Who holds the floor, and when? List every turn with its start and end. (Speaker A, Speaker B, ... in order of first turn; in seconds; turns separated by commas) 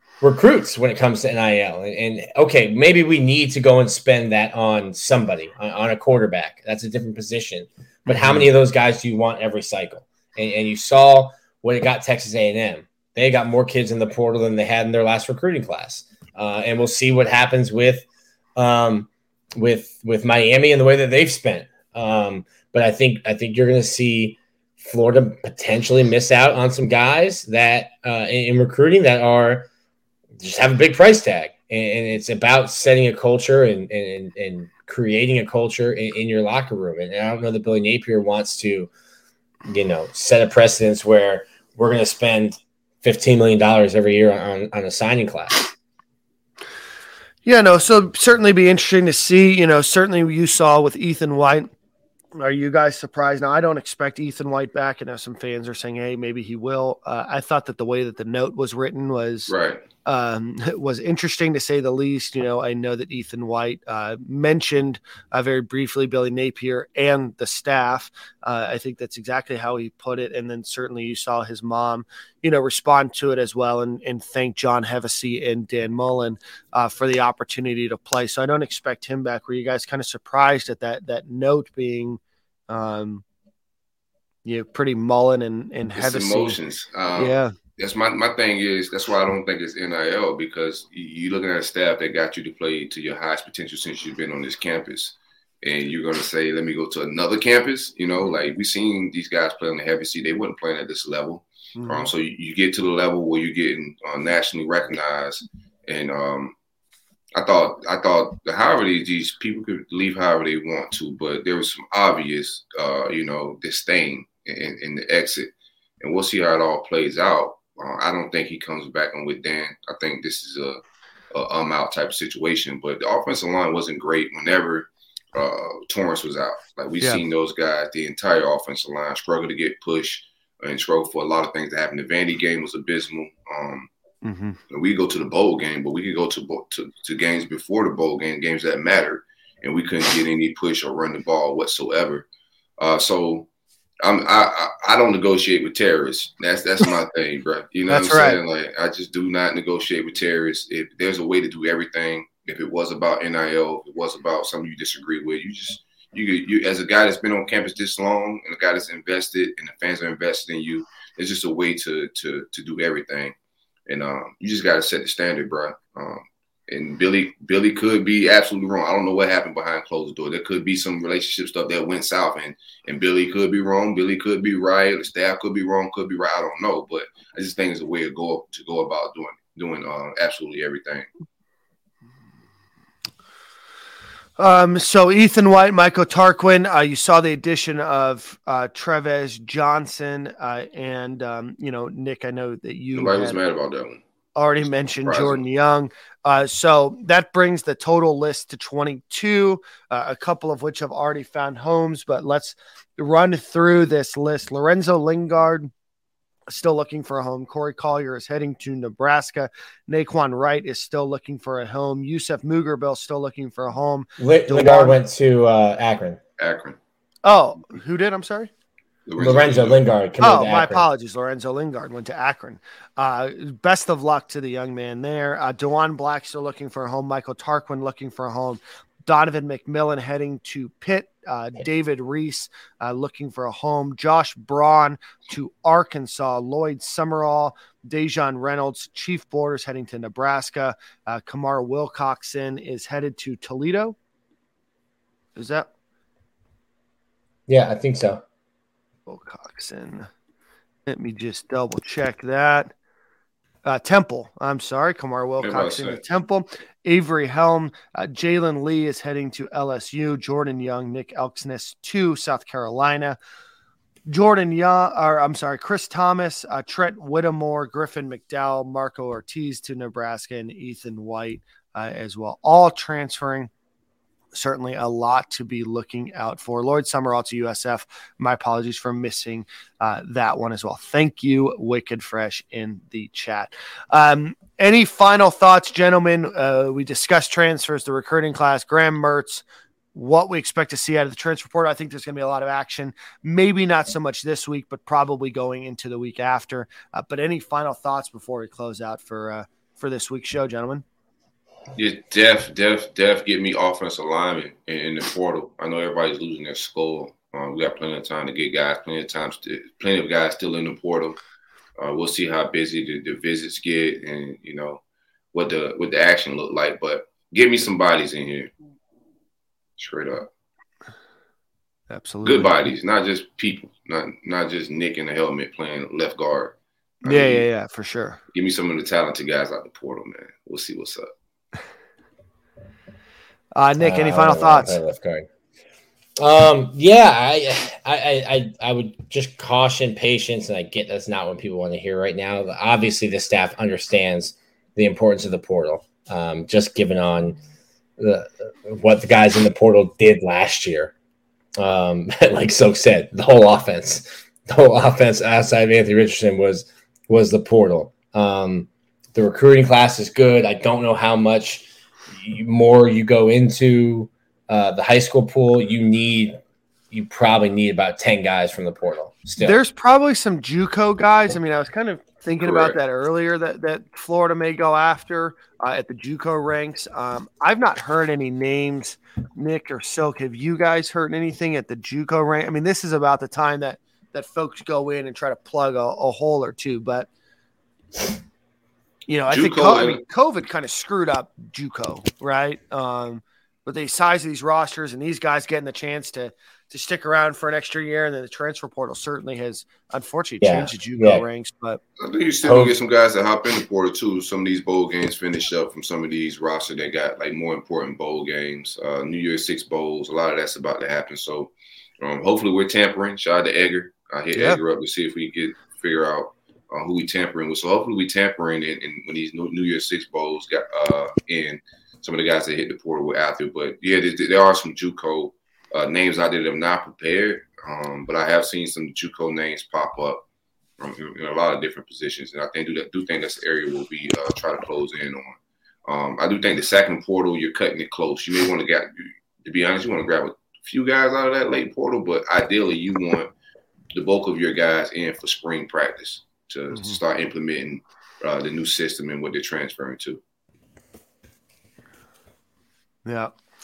Speaker A: 0.2-18.1, Speaker B: 8.1-8.5, Speaker A: 18.6-29.7, Speaker A: 30.4-38.9, Speaker A: 39.6-45.6, Speaker B: 47.5-51.7, Speaker B: 52.4-59.5, Speaker C: 59.5-59.8, Speaker B: 60.0-83.2, Speaker B: 84.5-86.6, Speaker C: 86.0-106.5, Speaker B: 87.2-87.5, Speaker B: 101.8-102.1, Speaker C: 107.3-115.5, Speaker C: 116.0-120.8, Speaker C: 121.3-133.9, Speaker B: 134.2-134.6, Speaker C: 134.7-142.3, Speaker C: 142.8-143.5, Speaker C: 144.0-163.3, Speaker B: 147.9-148.4, Speaker C: 163.9-181.1, Speaker B: 184.4-193.4, Speaker C: 192.9-194.0, Speaker B: 194.4-205.7, Speaker C: 195.0-195.4, Speaker B: 206.5-215.0, Speaker A: 214.2-216.2, Speaker C: 216.4-216.8, Speaker B: 217.2-218.5, Speaker C: 219.1-219.8, Speaker A: 219.2-220.9, Speaker B: 220.2-244.0, Speaker B: 245.3-245.7, Speaker A: 247.5-248.2, Speaker B: 249.1-250.1, Speaker B: 250.9-252.7, Speaker B: 253.6-263.2, Speaker C: 255.4-256.0, Speaker B: 264.1-273.5, Speaker B: 274.3-300.9, Speaker C: 301.8-311.2, Speaker C: 311.8-314.8, Speaker C: 315.3-318.5, Speaker C: 319.8-320.3, Speaker B: 321.9-322.5, Speaker C: 322.2-327.4, Speaker B: 327.0-328.2, Speaker C: 328.3-331.1, Speaker B: 333.6-334.8, Speaker A: 333.8-335.3, Speaker A: 336.2-347.4, Speaker A: 348.0-350.9, Speaker A: 351.6-366.4, Speaker A: 366.9-369.6, Speaker B: 369.4-387.1, Speaker C: 372.4-372.8, Speaker B: 389.1-401.8, Speaker C: 389.3-390.0, Speaker A: 400.4-401.2, Speaker C: 402.0-430.2, Speaker A: 402.4-402.8, Speaker C: 430.8-443.3, Speaker C: 443.9-450.2, Speaker B: 446.7-447.0, Speaker B: 453.1-453.3